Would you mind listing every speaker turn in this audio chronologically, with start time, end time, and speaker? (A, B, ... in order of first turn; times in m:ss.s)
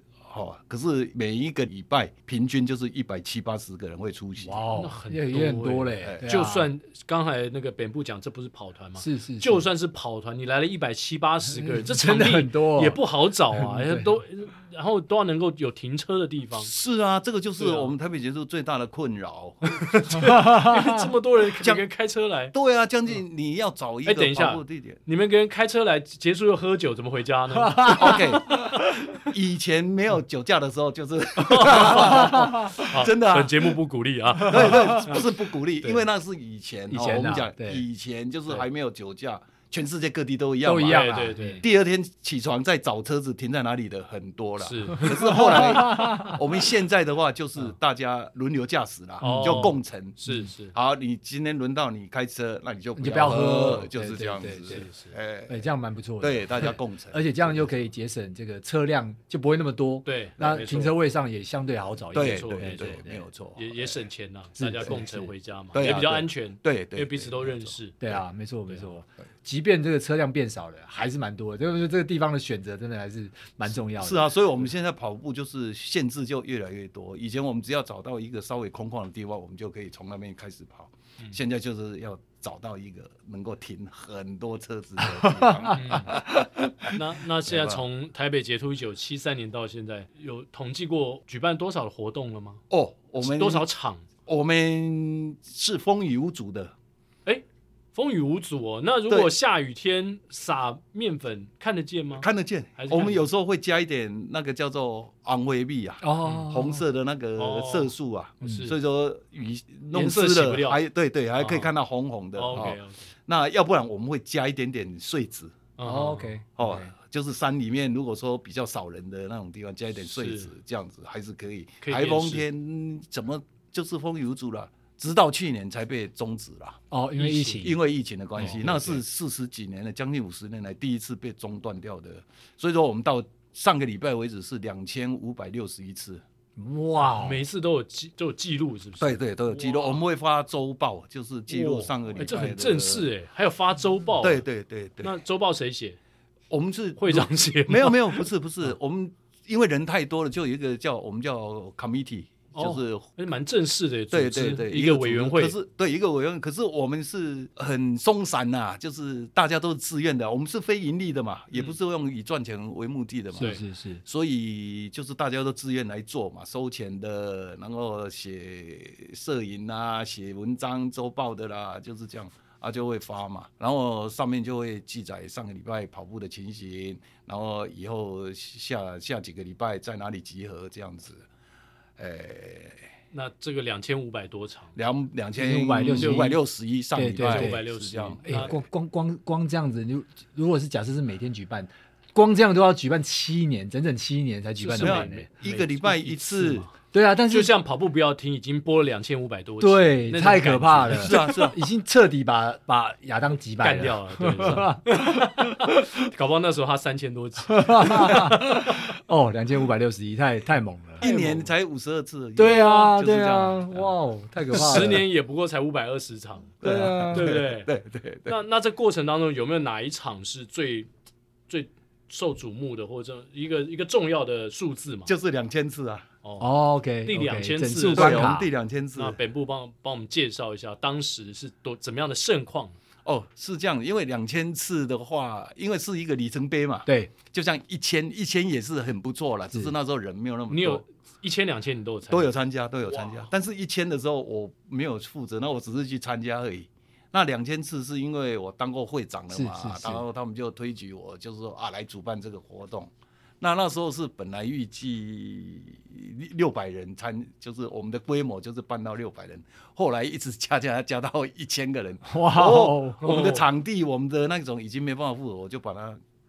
0:00.2-0:04.6 A
0:04.4-0:06.7 B
0:04.7-0:16.7 C
0:06.0-0:06.3 A
0:09.0-0:09.7 B
0:11.5-0:13.0 B
0:13.5-0:14.1 B
0:16.6-0:19.8 A
0:17.6-0:17.9 C
0:19.7-0:22.5 C
0:20.3-0:21.0 B
0:21.6-0:21.8 A
0:22.5-0:25.0 A
0:24.0-0:28.6 C
0:27.6-0:28.2 B
0:27.9-0:33.8 A
0:31.4-0:35.3 C
0:32.1-0:32.7 B
0:34.4-0:50.2 A
0:34.6-0:35.0 B
0:36.9-0:37.8 B
0:40.6-0:41.6 B
0:40.8-0:41.6 C
0:44.6-0:45.7 C
0:45.3-0:46.4 B
0:49.2-0:50.7 C
0:49.2-0:49.7 B
0:50.7-0:55.7 A
0:53.0-0:54.9 B
0:54.7-0:55.1 C
0:55.5-1:03.2 B
0:56.2-0:57.7 A
1:00.0-1:00.9 C
1:02.1-1:04.0 A
1:02.1-1:03.0 C
1:03.6-1:08.0 C
1:04.6-1:05.3 B
1:05.7-1:07.7 A
1:08.0-1:14.3 B
1:14.0-1:27.8 A
1:25.2-1:25.8 B
1:25.7-1:26.1 C
1:26.9-1:32.6 C
1:32.7-1:33.6 A
1:33.2-1:34.0 C
1:34.2-1:36.7 A
1:37.9-1:43.2 C
1:42.2-1:55.6 A
1:46.0-1:46.8 B
1:47.4-1:48.8 C
1:48.4-1:48.7 B
1:49.9-1:50.8 C
1:51.4-1:51.7 C
1:52.3-1:53.1 C
1:55.8-1:56.3 C
1:55.8-1:56.9 B
1:56.6-2:06.8 A
2:00.1-2:00.5 C
2:01.8-2:02.4 C
2:06.9-2:07.8 B
2:07.2-2:07.7 C
2:07.6-2:16.2 A
2:08.4-2:09.0 C
2:16.6-2:17.4 B
2:17.1-2:20.0 C
2:19.0-2:23.1 A
2:21.5-2:24.4 C
2:24.2-2:25.2 A
2:25.0-2:26.0 C
2:26.5-2:33.0 A
2:27.0-2:28.2 C
2:32.5-2:35.6 C
2:34.1-3:01.2 A
2:43.4-2:44.0 B
3:02.0-3:02.8 A
3:03.1-3:04.8 C
3:04.8-3:08.5 A
3:05.3-3:06.4 B
3:06.0-3:06.4 C
3:06.9-3:07.6 B
3:07.2-3:08.5 C
3:08.2-3:15.3 B
3:14.6-3:16.7 C
3:14.8-3:16.7 A
3:16.9-3:17.5 B
3:17.3-3:21.3 C
3:19.6-3:25.8 B
3:20.9-3:21.6 A
3:23.6-3:28.6 C
3:27.5-3:31.1 B
3:31.0-3:31.5 C
3:31.0-3:33.9 A
3:32.4-3:35.0 B
3:34.5-3:36.5 C
3:34.5-3:35.0 A
3:36.6-3:38.4 A
3:36.6-3:37.3 B
3:37.1-3:37.7 C
3:38.2-3:40.9 C
3:41.5-3:45.1 C
3:45.0-3:46.0 A
3:46.2-3:46.5 C
3:46.4-3:48.5 B
3:47.0-3:48.4 C
3:47.9-3:49.2 A
3:48.9-3:52.8 C
3:53.0-4:00.8 A
3:56.8-3:57.1 B
4:00.5-4:02.3 C
4:02.1-4:26.0 A
4:09.3-4:10.0 B
4:22.0-4:23.0 B
4:23.0-4:23.5 C